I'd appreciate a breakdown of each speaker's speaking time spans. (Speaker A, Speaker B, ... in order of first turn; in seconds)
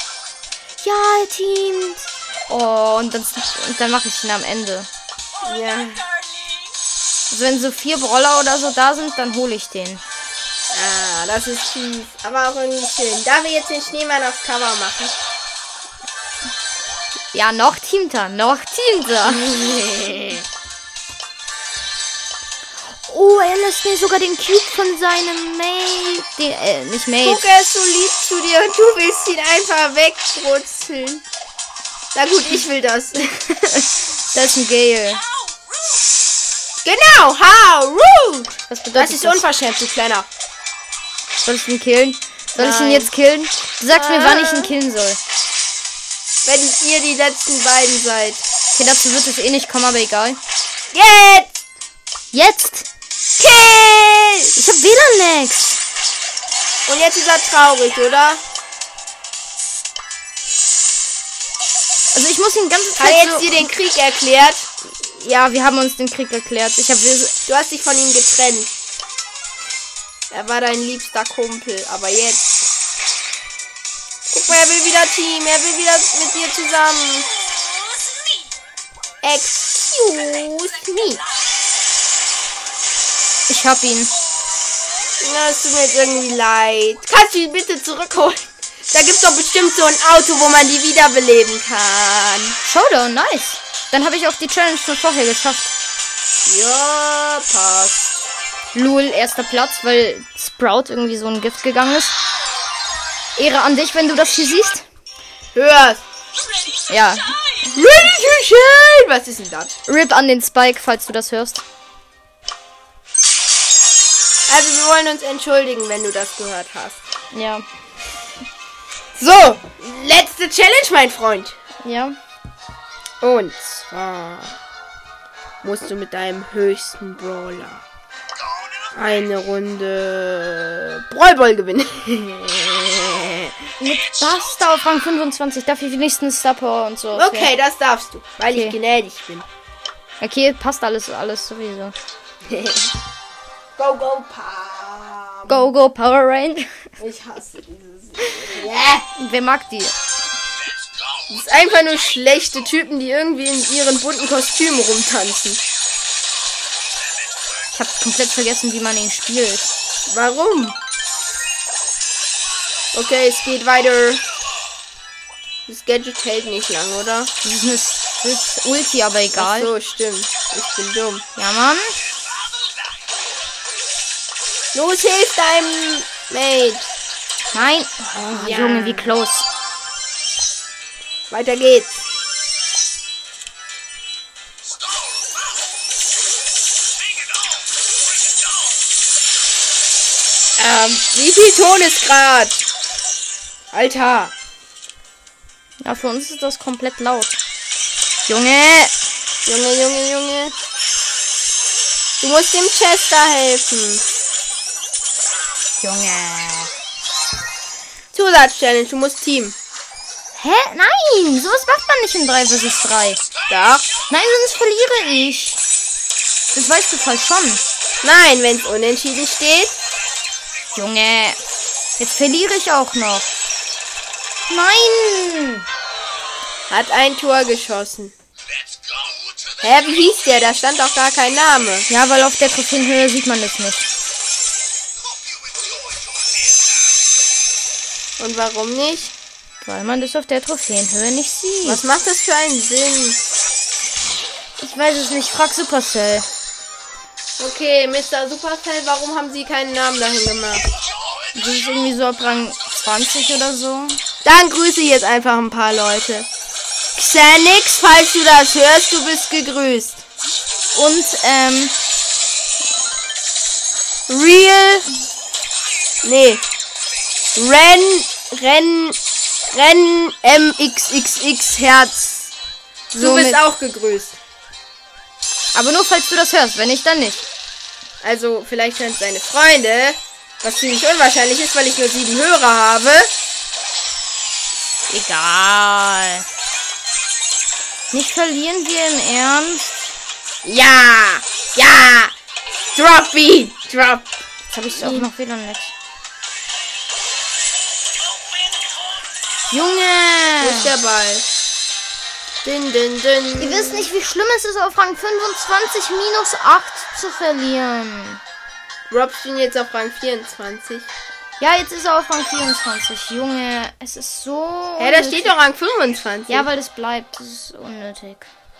Speaker A: 0.8-4.9, 7.3-10.0, 17.3-19.4, 22.9-27.4, 33.5-35.2, 38.7-39.4, 41.4-45.2, 48.7-50.4, 52.3-52.9, 54.5-55.8, 62.1-63.7, 64.9-67.3, 83.5-84.1, 92.6-95.7, 98.7-102.2, 103.4-104.8, 106.9-107.7, 109.9-111.6, 117.3-117.6, 121.8-122.2, 133.8-137.5, 138.5-138.8, 140.2-142.0, 145.5-146.9, 149.2-149.9, 157.7-159.7, 167.4-169.7, 171.4-172.0, 177.5-179.5, 195.8-197.4, 198.2-198.9, 205.8-206.7, 210.3-213.2, 214.1-215.6, 216.5-217.6, 220.7-221.4, 222.0-223.3, 224.5-225.7, 231.9-233.9, 239.6-241.8, 244.6-246.3, 251.3-254.0, 260.7-261.8, 272.9-273.4, 275.5-277.3, 284.9-286.2, 287.9-289.7, 294.5-295.7, 299.5-300.7, 303.4-308.2, 311.4-315.3, 316.3-318.3
Speaker B: 5.4-6.1, 10.7-15.2, 19.3-20.4, 27.2-31.2, 32.1-33.5, 36.8-40.3, 42.5-43.1, 43.9-44.7, 46.4-48.5, 50.9-51.5, 53.4-54.5, 56.9-58.4, 63.0-64.7, 67.5-68.7, 70.3-72.7, 74.3-77.3, 79.2-81.2, 85.2-92.6, 96.5-98.1, 105.5-106.0, 107.7-109.8, 114.5-117.0, 119.2-121.5, 123.2-124.5, 125.6-127.8, 128.9-133.5, 137.1-139.4, 142.5-142.9, 143.8-145.7, 147.0-149.1, 151.3-155.6, 160.1-160.8, 162.9-164.2, 165.7-167.3, 169.3-171.2, 174.7-176.9, 178.2-179.2, 181.3-182.0, 190.6-192.7, 193.7-194.3, 199.4-200.5, 202.2-204.0, 208.1-209.6, 213.5-213.9, 218.0-219.8, 226.7-228.1, 229.6-231.9, 238.2-239.1, 241.6-243.2, 247.4-250.7, 254.2-256.3, 256.9-260.0, 264.1-264.9, 266.0-266.4, 267.4-269.0, 269.5-272.3, 273.0-274.2, 278.0-283.1, 290.4-292.1, 292.7-294.1, 294.7-295.1, 300.4-301.2, 302.4-303.9, 308.9-310.9, 314.8-316.5